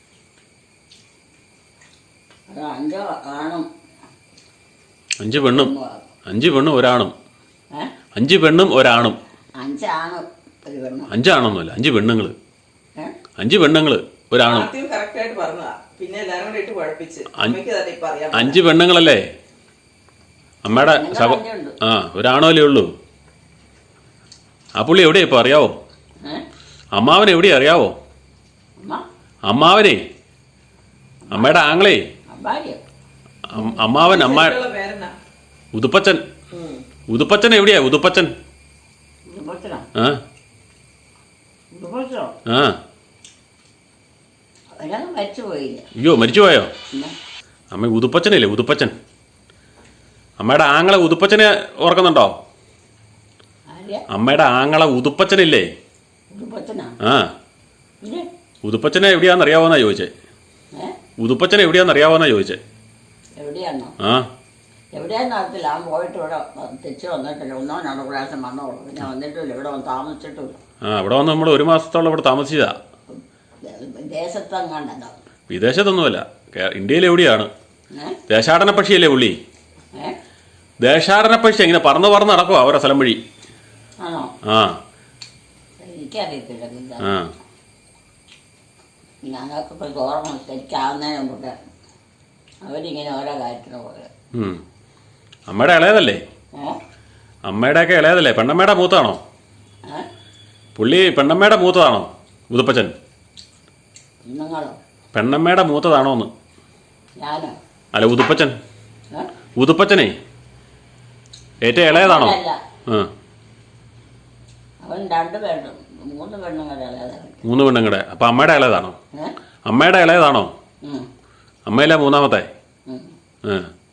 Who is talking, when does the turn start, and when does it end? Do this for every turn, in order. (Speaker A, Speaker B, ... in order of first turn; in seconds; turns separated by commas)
Speaker A: 2.5-3.7, Speaker B: 5.2-5.7, Speaker A: 5.3-6.1, Speaker B: 6.3-7.1, Speaker B: 8.2-9.2, Speaker A: 9.6-11.1, Speaker B: 11.1-12.3, Speaker B: 13.4-14.7, Speaker C: 14.4-18.6, Speaker B: 18.3-19.2, Speaker B: 20.6-22.9, Speaker A: 20.7-21.8, Speaker B: 24.8-25.8, Speaker B: 26.9-27.9, Speaker B: 29.5-30.0, Speaker A: 31.3-31.6, Speaker B: 31.3-32.0, Speaker A: 32.3-32.8, Speaker B: 33.5-34.6, Speaker C: 33.6-35.1, Speaker B: 35.7-36.3, Speaker C: 36.5-36.9, Speaker B: 37.1-38.4, Speaker A: 39.3-39.9, Speaker B: 40.0-40.2, Speaker A: 41.8-42.4, Speaker B: 42.5-42.8, Speaker A: 44.8-45.9, Speaker B: 46.0-46.7, Speaker B: 47.7-49.0, Speaker B: 50.4-52.4, Speaker A: 53.7-54.0, Speaker B: 54.1-55.7, Speaker A: 56.3-57.0, Speaker B: 57.0-57.4, Speaker B: 58.6-60.1, Speaker B: 61.2-62.6, Speaker A: 63.4-64.0, Speaker B: 64.0-64.3, Speaker A: 65.0-70.6, Speaker B: 70.8-72.8, Speaker A: 73.1-75.2, Speaker B: 75.5-77.5, Speaker A: 77.9-78.2, Speaker B: 78.3-79.4, Speaker B: 80.8-83.2, Speaker A: 84.0-84.3, Speaker B: 84.4-84.8, Speaker A: 85.8-87.2, Speaker B: 87.0-87.3, Speaker A: 89.3-91.6, Speaker A: 92.6-94.1, Speaker B: 94.3-94.6, Speaker B: 95.5-96.2, Speaker B: 97.5-99.2, Speaker B: 100.8-103.0, Speaker A: 104.3-104.8, Speaker B: 105.1-106.3, Speaker A: 107.2-107.6, Speaker B: 107.9-108.6, Speaker B: 109.6-110.2, Speaker B: 111.6-113.1, Speaker A: 111.9-112.6, Speaker A: 114.8-117.4, Speaker B: 117.4-119.0, Speaker B: 119.7-120.5, Speaker A: 120.8-121.1, Speaker B: 121.7-122.5, Speaker A: 122.9-123.1, Speaker B: 123.4-123.7